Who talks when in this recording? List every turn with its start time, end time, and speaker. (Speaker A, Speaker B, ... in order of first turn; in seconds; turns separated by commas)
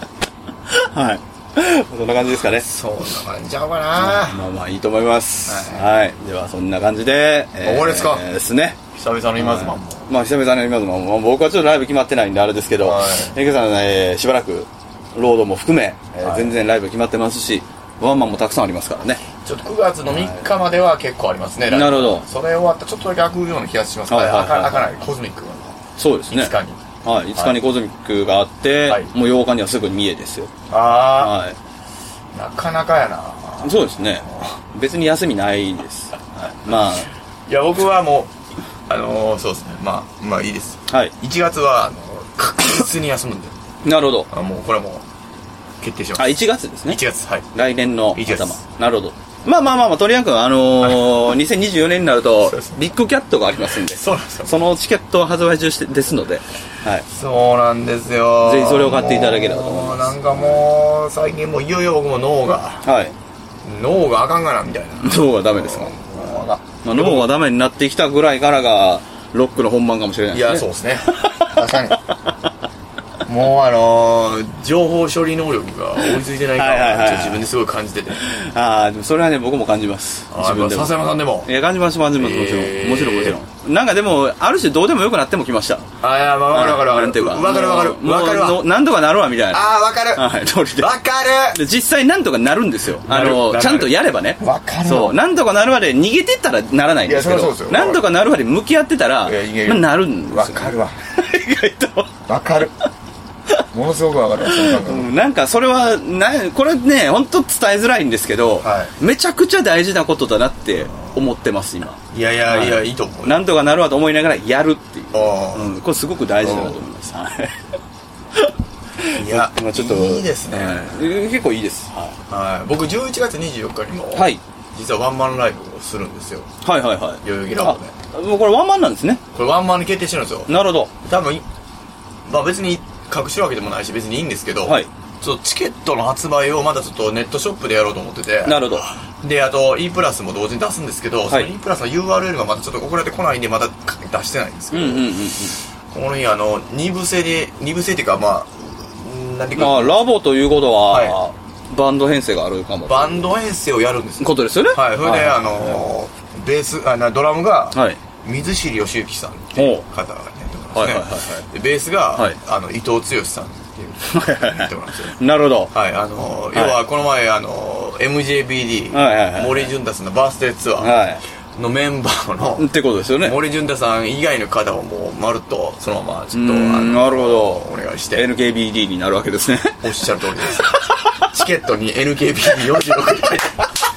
Speaker A: 0.7-2.7, Speaker B: 2.5-4.5, Speaker A: 4.0-8.8, Speaker B: 5.5-5.9, Speaker B: 7.6-8.3, Speaker B: 8.9-10.1, Speaker A: 9.4-19.2, Speaker B: 12.8-13.3, Speaker B: 16.1-16.6, Speaker B: 19.4-26.8, Speaker A: 20.1-20.4, Speaker A: 21.7-22.2, Speaker A: 24.1-24.9, Speaker A: 26.0-30.5, Speaker B: 30.7-31.4, Speaker A: 31.1-31.6, Speaker B: 32.3-34.5, Speaker A: 33.6-37.1, Speaker B: 37.5-38.3, Speaker B: 38.9-43.5, Speaker A: 43.8-44.3, Speaker B: 44.3-45.0, Speaker B: 45.8-47.5, Speaker A: 46.2-47.0, Speaker A: 47.5-57.1, Speaker B: 48.1-48.6, Speaker B: 52.5-52.8, Speaker B: 53.7-54.6, Speaker B: 57.1-62.9, Speaker A: 58.5-60.6, Speaker A: 62.8-63.1, Speaker B: 63.6-67.3, Speaker A: 65.0-66.3, Speaker A: 66.8-72.2, Speaker B: 70.3-72.1, Speaker B: 73.2-78.2, Speaker A: 76.0-77.5, Speaker A: 78.2-85.9, Speaker B: 80.3-81.5, Speaker B: 82.2-83.4, Speaker B: 86.0-88.6, Speaker A: 86.5-91.0, Speaker B: 89.5-91.6, Speaker A: 91.5-102.2, Speaker B: 92.9-95.2, Speaker B: 97.0-98.1, Speaker B: 99.2-101.0, Speaker B: 102.3-102.7, Speaker B: 103.7-105.1, Speaker A: 104.5-117.8, Speaker B: 108.6-108.9, Speaker B: 112.1-113.4, Speaker B: 115.1-115.8, Speaker B: 116.4-116.8, Speaker A: 118.3-122.2, Speaker B: 119.2-121.1, Speaker B: 122.3-126.5, Speaker A: 124.2-124.4, Speaker A: 126.6-129.2, Speaker B: 127.2-127.9, Speaker B: 129.3-131.4, Speaker A: 130.5-130.9, Speaker B: 132.3-145.2, Speaker A: 138.4-138.9, Speaker A: 144.7-145.6, Speaker B: 145.9-150.0, Speaker A: 149.6-153.3, Speaker B: 150.9-151.2, Speaker B: 152.9-165.2, Speaker A: 154.2-155.8, Speaker A: 159.6-159.8, Speaker A: 160.8-161.5, Speaker A: 164.0-165.7, Speaker B: 165.7-171.0, Speaker A: 166.5-166.8, Speaker A: 168.9-169.7, Speaker A: 170.8-171.2, Speaker B: 171.6-178.2, Speaker A: 172.6-173.4, Speaker A: 176.3-181.3, Speaker B: 179.8-183.7